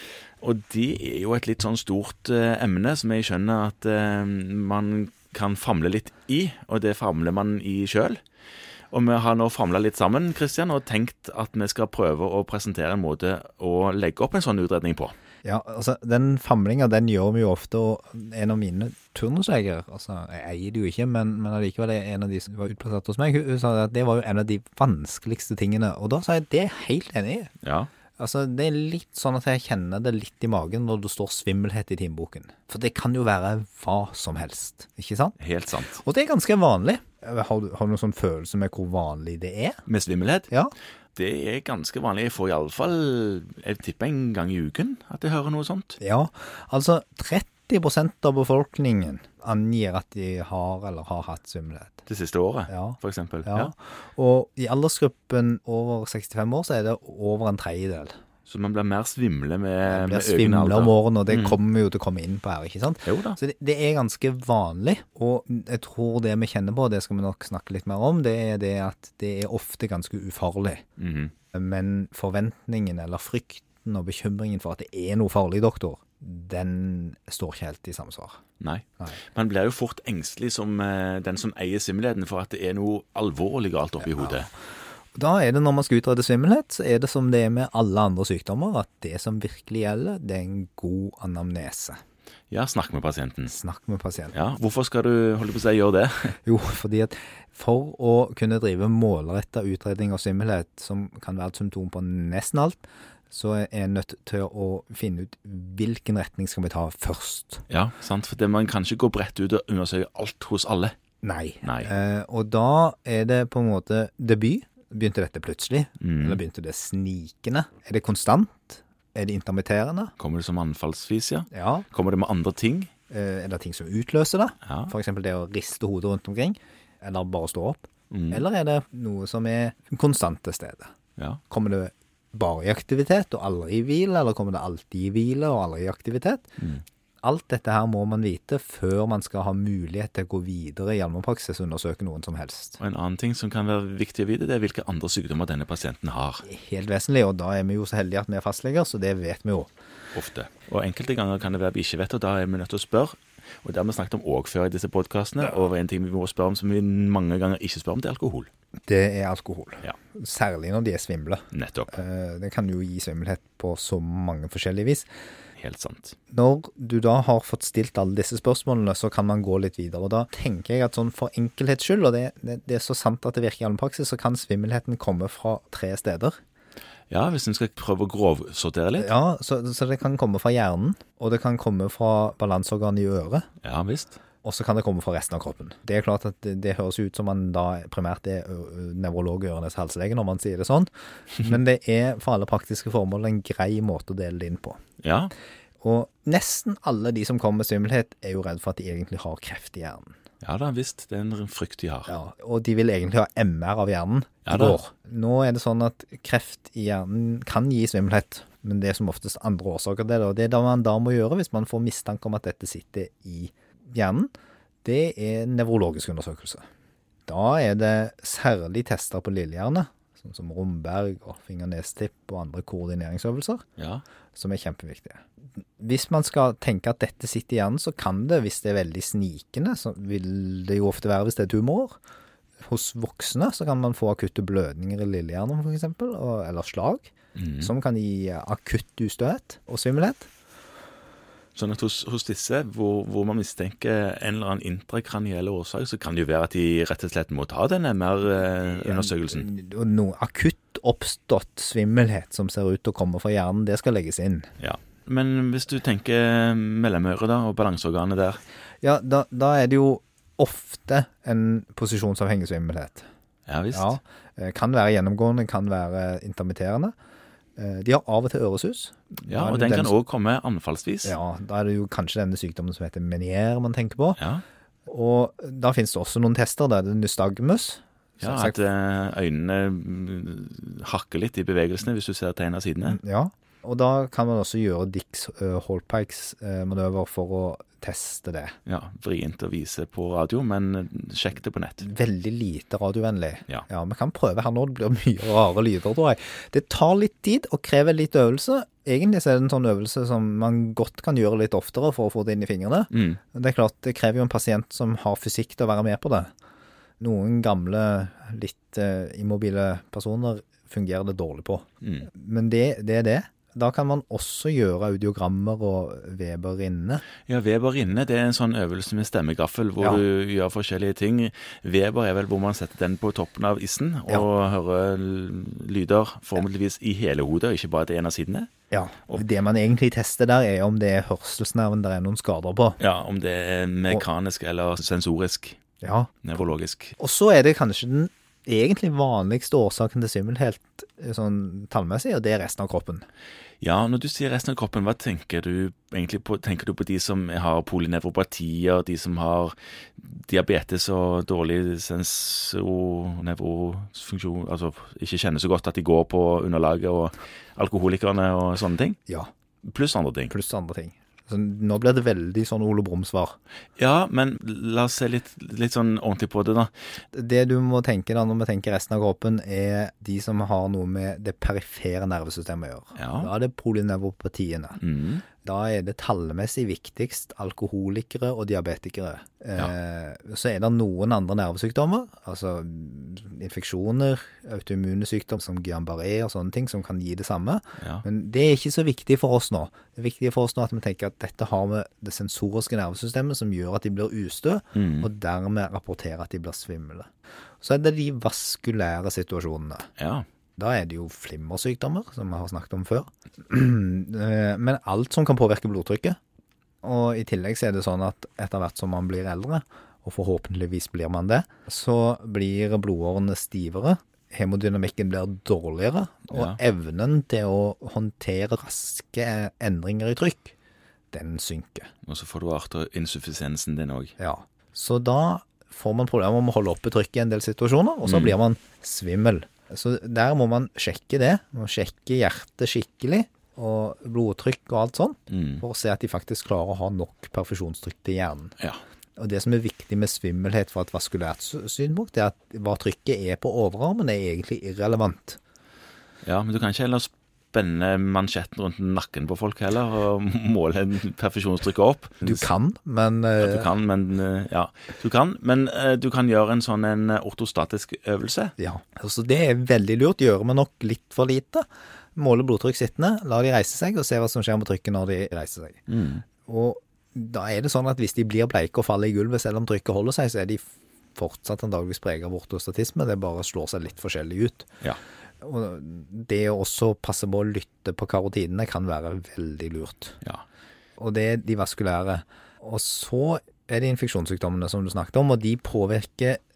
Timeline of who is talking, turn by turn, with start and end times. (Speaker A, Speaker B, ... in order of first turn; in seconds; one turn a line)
Speaker A: 0.4-8.2
Speaker A: 8.9-15.1
Speaker B: 15.4-27.5
Speaker A: 27.6-27.9
Speaker B: 28.2-35.4
Speaker A: 35.4-36.0
Speaker B: 35.9-39.8
Speaker A: 39.9-40.5
Speaker A: 41.1-46.0
Speaker B: 46.0-52.0
Speaker A: 52.1-53.7
Speaker B: 52.7-58.1
Speaker A: 58.5-61.6
Speaker B: 59.9-70.8
Speaker A: 63.0-63.4
Speaker A: 71.0-71.3
Speaker B: 71.5-78.4
Speaker A: 78.6-84.5
Speaker B: 84.2-84.5
Speaker B: 85.1-92.0
Speaker A: 92.5-93.5
Speaker B: 93.5-94.3
Speaker A: 94.3-96.4
Speaker B: 96.5-107.7
Speaker A: 107.7-110.9
Speaker B: 111.2-120.1
Speaker A: 111.6-111.9
Speaker A: 116.0-116.4
Speaker A: 120.2-122.9
Speaker B: 121.5-121.8
Speaker B: 123.1-130.9
Speaker A: 124.6-124.9
Speaker A: 128.1-128.4
Speaker B: 131.5-136.5
Speaker B: 137.2-142.8
Speaker A: 142.8-146.4
Speaker B: 146.4-149.7
Speaker A: 150.1-158.5
Speaker B: 158.9-165.1
Speaker A: 161.5-161.9
Speaker A: 165.6-166.2
Speaker B: 166.3-176.4
Speaker A: 177.1-179.1
Speaker B: 179.0-183.4
Speaker A: 183.6-184.2
Speaker B: 184.4-194.8
Speaker A: 195.0-195.3
Speaker B: 195.8-200.1
Speaker A: 200.4-202.1
Speaker B: 202.1-214.3
Speaker A: 204.4-204.8
Speaker B: 214.8-216.6
Speaker B: 217.3-223.6
Speaker A: 223.8-224.0
Speaker B: 224.3-225.2
Speaker B: 225.8-232.0
Speaker B: 232.6-240.3
Speaker A: 237.3-237.7
Speaker A: 241.5-249.5
Speaker B: 248.8-254.5
Speaker A: 254.6-258.4
Speaker B: 258.8-263.1
Speaker A: 263.5-264.0
Speaker B: 263.7-266.9
Speaker B: 267.6-269.9
Speaker A: 269.3-271.1
Speaker B: 271.0-274.2
Speaker A: 274.2-274.4
Speaker B: 274.9-278.6
Speaker A: 278.2-283.0
Speaker B: 282.9-288.6
Speaker A: 288.6-291.9
Speaker B: 291.8-306.3
Speaker A: 302.9-303.2
Speaker B: 307.0-317.0
Speaker A: 311.8-312.1
Speaker A: 317.2-328.5
Speaker B: 328.7-332.8
Speaker A: 332.8-335.6
Speaker B: 335.8-336.1
Speaker A: 336.2-336.9
Speaker B: 337.0-343.1
Speaker A: 343.6-359.0
Speaker A: 359.6-360.3
Speaker B: 360.3-363.4
Speaker A: 363.8-366.7
Speaker B: 367.1-374.8
Speaker A: 372.9-373.3
Speaker A: 374.8-375.2
Speaker B: 375.4-397.1
Speaker A: 387.8-388.0
Speaker A: 394.7-395.1
Speaker B: 397.6-399.9
Speaker A: 400.0-400.2
Speaker B: 400.6-406.2
Speaker B: 406.8-420.5
Speaker A: 416.3-416.6
Speaker B: 421.1-421.9
Speaker A: 422.1-424.1
Speaker B: 424.2-438.5
Speaker A: 428.0-428.3
Speaker A: 435.3-435.6
Speaker B: 439.2-445.4
Speaker A: 446.2-452.4
Speaker B: 452.2-453.7
Speaker A: 453.4-458.5
Speaker B: 458.6-465.9
Speaker A: 465.9-466.2
Speaker B: 466.4-474.7
Speaker B: 475.4-480.2
Speaker B: 481.0-486.4